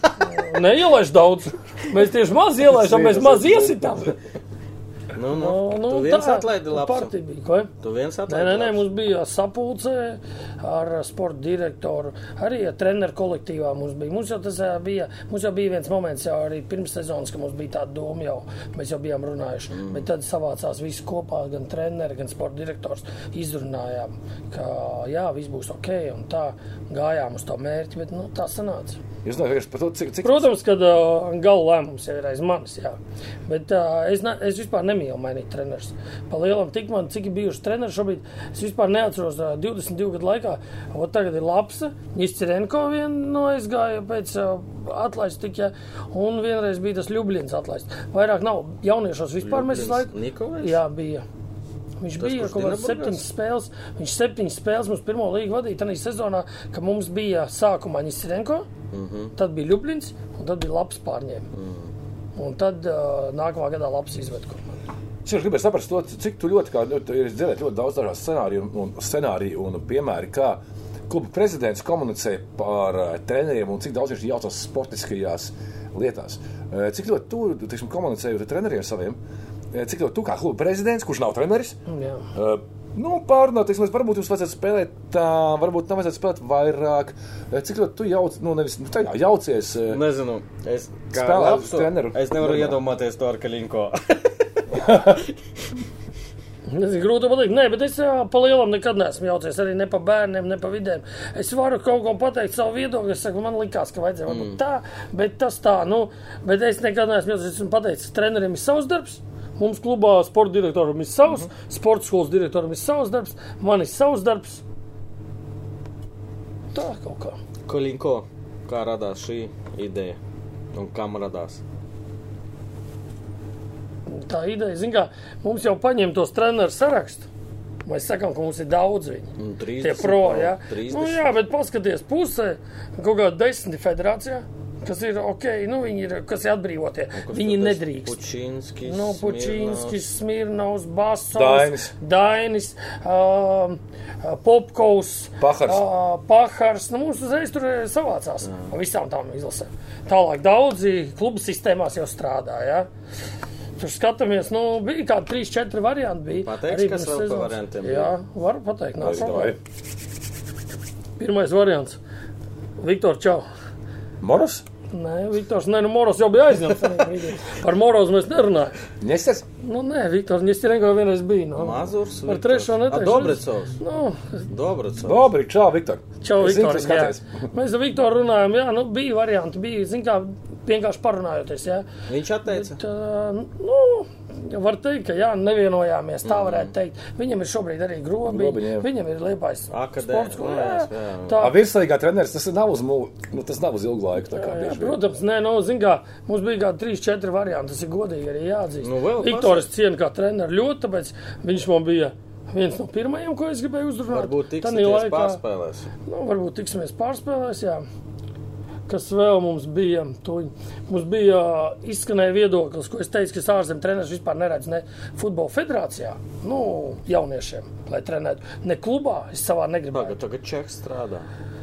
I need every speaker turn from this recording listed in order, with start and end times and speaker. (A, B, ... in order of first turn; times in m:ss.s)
0:00.2-0:04.2 A
0:02.6-0:04.1 B
0:05.1-0:07.1 C
0:05.3-0:07.7 A
0:07.8-0:08.8 C
0:08.3-0:29.0 A
0:19.7-0:20.1 C
0:29.2-0:30.5 B
0:30.2-0:51.2 A
0:49.4-0:50.8 C
0:52.0-0:58.7 A
0:52.2-0:53.2 C
0:58.9-0:59.3 C
0:59.4-1:01.5 A
1:01.5-1:01.9 C
1:02.4-1:04.8 A
1:05.2-1:19.2 B
1:19.7-1:21.8 B
1:21.9-1:22.2 A
1:22.3-1:30.0 B
1:29.9-1:34.8 C
1:31.1-1:32.8 B
1:34.7-1:35.2 B
1:36.7-1:54.6 A
1:44.3-1:44.6 C
1:56.7-1:57.4 A
1:57.7-2:00.2 C
2:00.7-2:01.6 C
2:04.1-2:07.3 A
2:07.8-2:18.2 A
2:09.4-2:11.3 C
2:17.2-2:20.0 C
2:18.8-2:32.9 A
2:21.3-2:21.9 B
2:25.4-2:25.8 B
2:28.4-2:28.7 C
2:33.8-2:39.6 A
2:36.3-2:38.1 C
2:39.0-2:39.6 B
2:41.2-2:42.0 A
2:42.8-2:43.4 A
2:44.2-2:44.6 B
2:44.9-2:48.7 A
2:49.0-2:49.4 B
2:49.6-2:54.5 A
2:51.6-2:53.8 C
2:54.5-2:55.3 C
2:55.0-2:57.5 B
2:56.2-3:01.9 A
3:02.1-3:02.8 C
3:02.5-3:11.6 A
3:06.2-3:06.7 C
3:08.3-3:08.9 B
3:09.7-3:11.4 C
3:11.4-3:15.0 B
3:14.3-3:25.4 A
3:18.8-3:19.7 C
3:24.1-3:25.9 C
3:26.1-3:27.8 A
3:28.9-3:40.2 A
3:39.9-3:41.3 C